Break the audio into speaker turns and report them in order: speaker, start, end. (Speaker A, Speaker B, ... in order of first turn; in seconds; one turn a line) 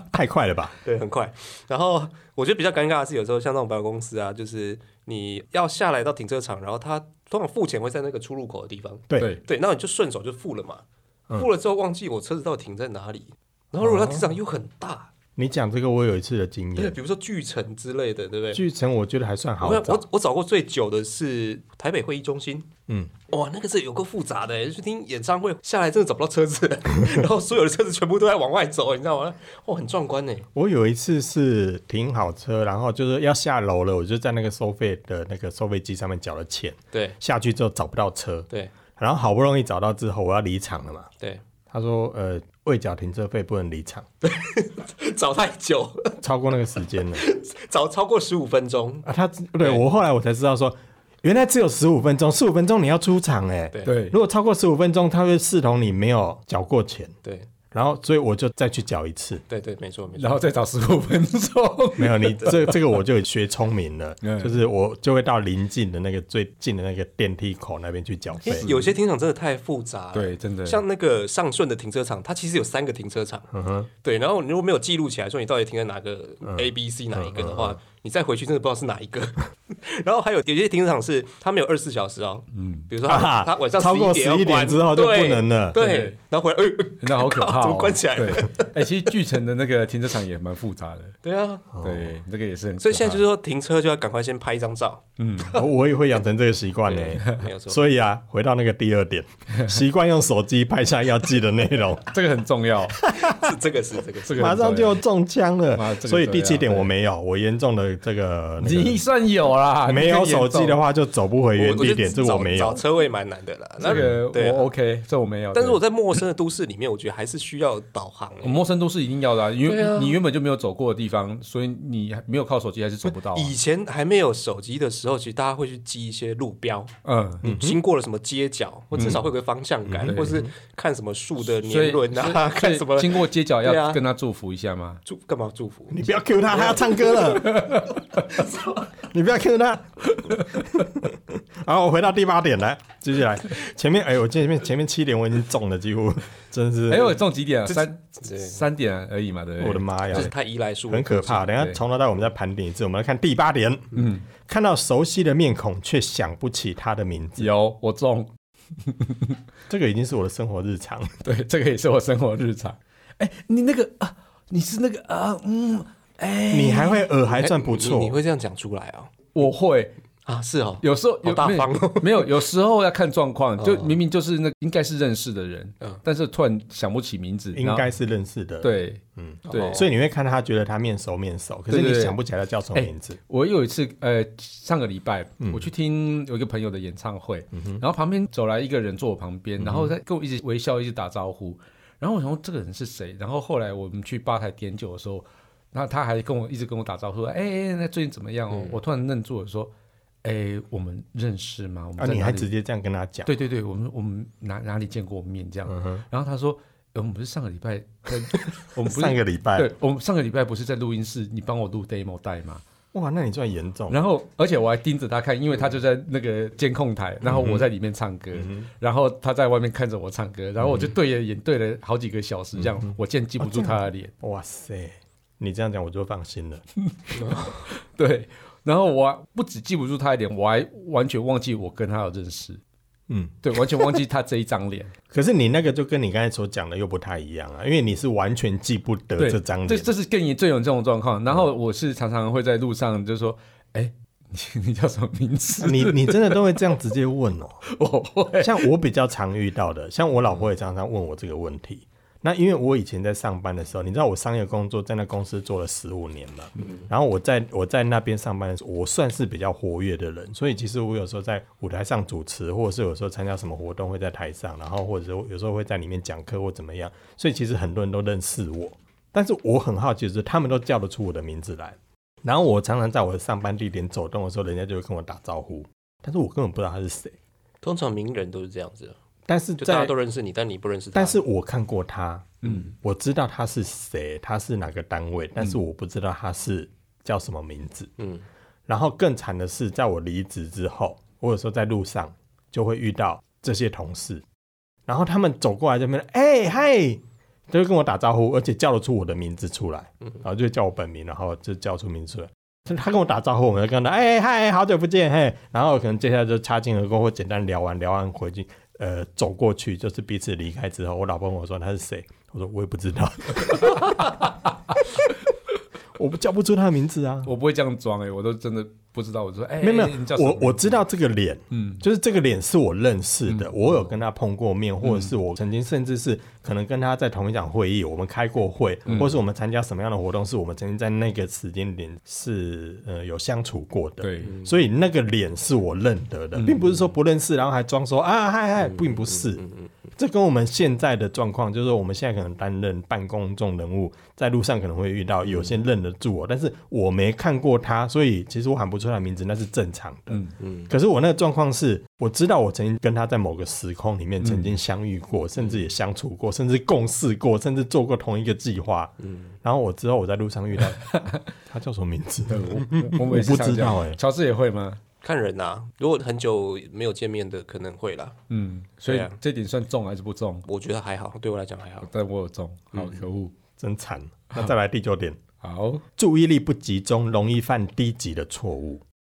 Speaker A: 0.1-0.8
Speaker B: 0.8-15.1
Speaker A: 13.8-14.3
Speaker A: 15.4-17.0
Speaker B: 16.8-18.6
Speaker A: 18.5-20.0
Speaker B: 19.6-22.7
Speaker A: 22.9-23.1
Speaker B: 23.3-30.5
Speaker A: 30.5-41.1
Speaker B: 36.9-37.2
Speaker A: 41.7-44.1
Speaker B: 44.2-46.2
Speaker A: 46.2-47.2
Speaker B: 47.1-49.0
Speaker A: 49.0-57.1
Speaker C: 53.8-54.2
Speaker A: 57.7-59.4
Speaker B: 59.5-60.4
Speaker C: 60.1-62.8
Speaker A: 62.0-68.7
Speaker C: 64.2-64.6
Speaker B: 68.4-73.5
Speaker C: 68.5-68.9
Speaker C: 70.1-70.8
Speaker A: 73.5-73.9
Speaker B: 74.0-88.8
Speaker A: 76.4-77.8
Speaker C: 82.5-82.9
Speaker A: 83.0-85.8
Speaker C: 85.8-86.2
Speaker C: 87.0-91.2
Speaker B: 91.2-91.7
Speaker A: 91.7-92.2
Speaker C: 91.8-93.2
Speaker B: 92.8-95.0
Speaker C: 95.2-95.5
Speaker A: 95.5-102.1
Speaker B: 96.8-97.8
Speaker C: 102.1-103.0
Speaker A: 103.0-103.5
Speaker B: 103.1-104.5
Speaker C: 104.2-105.0
Speaker A: 104.3-109.0
Speaker C: 105.7-106.9
Speaker C: 108.6-110.8
Speaker A: 109.8-112.8
Speaker B: 111.5-114.7
Speaker C: 113.8-115.8
Speaker B: 115.5-118.6
Speaker C: 118.4-123.5
Speaker B: 119.6-120.2
Speaker B: 123.1-134.0
Speaker C: 127.0-127.5
Speaker A: 127.4-127.8
Speaker C: 128.9-129.2
Speaker A: 128.9-129.2
Speaker A: 129.8-130.5
Speaker C: 130.1-130.4
Speaker C: 131.6-135.0
Speaker B: 135.1-138.8
Speaker A: 135.9-137.8
Speaker C: 137.4-138.0
Speaker A: 139.1-147.2
Speaker C: 140.3-140.6
Speaker C: 146.9-150.3
Speaker B: 148.2-148.6
Speaker A: 149.6-150.3
Speaker B: 150.1-151.5
Speaker A: 150.9-157.5
Speaker C: 151.5-151.8
Speaker C: 153.9-154.2
Speaker C: 157.4-158.3
Speaker C: 158.8-159.4
Speaker A: 159.7-161.1
Speaker C: 161.2-167.1
Speaker A: 166.5-168.2
Speaker B: 167.3-169.1
Speaker C: 169.3-169.9
Speaker B: 170.2-172.3
Speaker C: 170.8-177.8
Speaker B: 173.6-173.9
Speaker A: 177.5-183.2
Speaker C: 178.6-179.8
Speaker B: 179.4-179.9
Speaker C: 181.7-182.2
Speaker C: 182.7-199.7
Speaker A: 185.4-185.7
Speaker A: 187.5-187.8
Speaker A: 189.6-189.9
Speaker B: 198.5-198.8
Speaker C: 200.2-202.5
Speaker A: 202.0-203.3
Speaker C: 203.2-212.6
Speaker A: 205.7-206.0
Speaker A: 208.8-209.7
Speaker A: 212.9-214.0
Speaker C: 213.9-224.1
Speaker A: 217.2-217.7
Speaker A: 218.3-218.7
Speaker A: 220.6-220.9
Speaker A: 222.6-226.6
Speaker C: 226.9-232.6
Speaker B: 227.2-227.5
Speaker A: 233.1-233.9
Speaker C: 233.4-234.9
Speaker A: 235.1-239.9
Speaker C: 239.2-246.4
Speaker A: 245.6-247.6
Speaker C: 247.6-248.7
Speaker A: 248.4-277.1
Speaker B: 277.6-278.9
Speaker A: 279.3-279.9
Speaker B: 279.6-281.2
Speaker A: 280.9-287.9
Speaker B: 282.4-282.7
Speaker B: 288.0-288.2
Speaker A: 288.7-294.2
Speaker A: 294.9-314.3
Speaker C: 313.5-314.1
Speaker A: 315.9-317.3
Speaker C: 317.2-320.8
Speaker A: 319.6-339.4
Speaker C: 321.5-321.8
Speaker C: 324.8-325.1
Speaker C: 328.9-329.1
Speaker C: 334.0-334.4
Speaker B: 334.2-334.5
Speaker C: 336.4-336.7
Speaker B: 338.6-339.7
Speaker A: 339.9-364.0
Speaker B: 345.3-345.5
Speaker B: 350.4-350.7
Speaker C: 354.2-354.5
Speaker B: 359.0-359.3
Speaker C: 360.8-361.2
Speaker C: 362.3-364.8
Speaker B: 365.0-368.1
Speaker C: 368.3-370.4
Speaker B: 368.9-369.1
Speaker B: 370.5-371.9
Speaker C: 371.8-373.3
Speaker B: 372.7-373.0
Speaker A: 373.6-375.2
Speaker C: 375.4-375.8
Speaker A: 376.0-378.8